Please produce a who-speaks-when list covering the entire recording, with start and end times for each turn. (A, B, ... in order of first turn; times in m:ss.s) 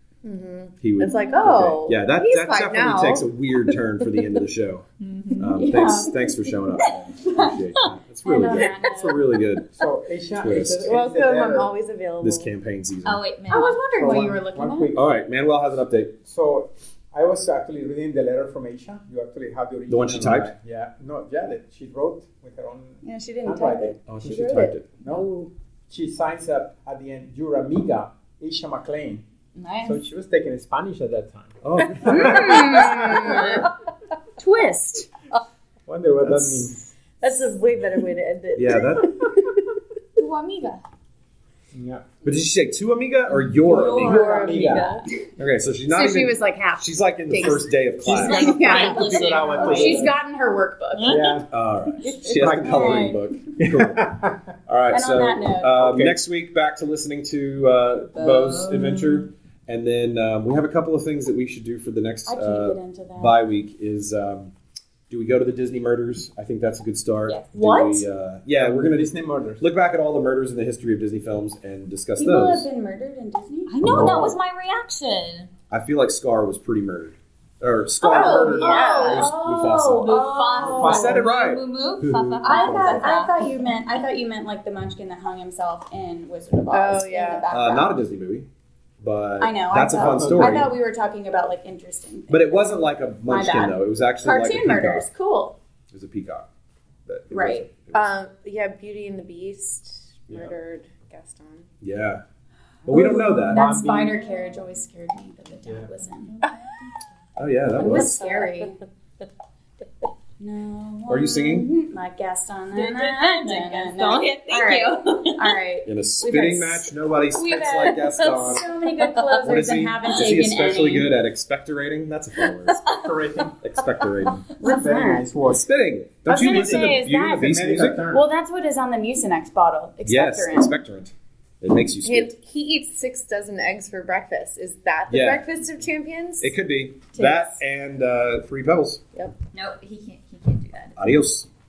0:00.2-0:03.3 A
0:00.8-0:09.8 B
0:01.1-0:01.5 C
0:05.0-0:05.5 D
0:05.5-0:06.6 C
0:06.8-0:07.9 D
0:08.2-0:09.2 C
0:09.8-0:11.7 E
0:10.4-0:10.9 B
0:10.5-0:12.5 A
0:12.2-0:13.2 B
0:13.0-0:13.8 D
0:13.5-0:14.9 C
0:14.0-0:15.1 E
0:15.0-0:16.2 B
0:16.2-0:24.0 E
0:19.9-0:20.5 B
0:23.0-0:25.5 C
0:24.1-0:24.9 B
0:25.9-0:29.2 E
0:29.6-0:30.0 C
0:29.8-0:33.5 E
0:31.6-0:33.1 B
0:32.0-0:33.7 C
0:32.9-0:33.7 A
0:34.4-0:35.1 C
0:35.9-0:36.8 E
0:36.2-0:36.7 B
0:37.2-0:39.6 A
0:38.6-0:39.2 B
0:40.2-0:40.8 D
0:41.7-0:42.1 E
0:42.2-0:44.3 B
0:43.6-0:45.0 D
0:43.7-0:45.0 A
0:43.9-0:44.9 E
0:44.5-0:44.8 C
0:45.4-0:50.1 B
0:45.9-0:51.4 C
0:48.0-0:50.1 D
0:48.1-0:48.9 A
0:48.5-0:50.2 E
0:51.0-0:51.4 D
0:51.0-0:51.5 E
0:51.5-1:04.5 B
0:52.0-0:53.0 D
0:52.1-0:53.2 C
0:52.4-0:54.5 E
0:54.9-0:55.9 C
0:55.8-0:56.2 E
0:58.2-0:59.3 D
1:02.3-1:03.4 C
1:05.1-1:12.7 B
1:07.3-1:07.6 D
1:07.5-1:08.1 C
1:08.6-1:09.6 E
1:12.2-1:13.8 C
1:13.7-1:15.5 D
1:13.8-1:14.3 B
1:13.9-1:14.4 E
1:15.7-1:23.1 B
1:18.0-1:21.2 C
1:18.0-1:19.3 A
1:18.1-1:23.4 D
1:22.1-1:23.0 E
1:22.4-1:27.9 C
1:26.7-1:27.5 A
1:27.5-1:28.5 B
1:29.0-1:30.7 B
1:29.4-1:35.6 C
1:29.9-1:30.7 E
1:32.3-1:35.1 B
1:35.9-1:36.5 B
1:37.1-1:38.1 B
1:37.3-1:37.8 C
1:37.9-1:41.7 A
1:41.8-1:42.2 B
1:42.9-1:43.7 B
1:42.9-1:46.3 C
1:43.5-1:44.3 E
1:45.7-1:46.5 D
1:47.4-1:48.3 B
1:47.8-1:48.8 C
1:50.4-2:01.1 C
1:51.1-1:51.7 B
1:52.7-1:55.6 D
1:55.8-1:58.7 B
1:59.0-1:59.4 D
1:59.4-2:02.8 B
2:02.7-2:03.3 D
2:02.9-2:03.6 E
2:03.6-2:04.5 B
2:04.6-2:05.3 C
2:04.6-2:05.7 E
2:05.4-2:08.0 B
2:06.3-2:08.3 E
2:06.3-2:10.8 C
2:10.0-2:12.3 B
2:12.0-2:16.5 A
2:15.1-2:15.5 B
2:16.4-2:19.0 B
2:17.1-2:17.6 C
2:19.5-2:21.0 D
2:21.0-2:21.5 B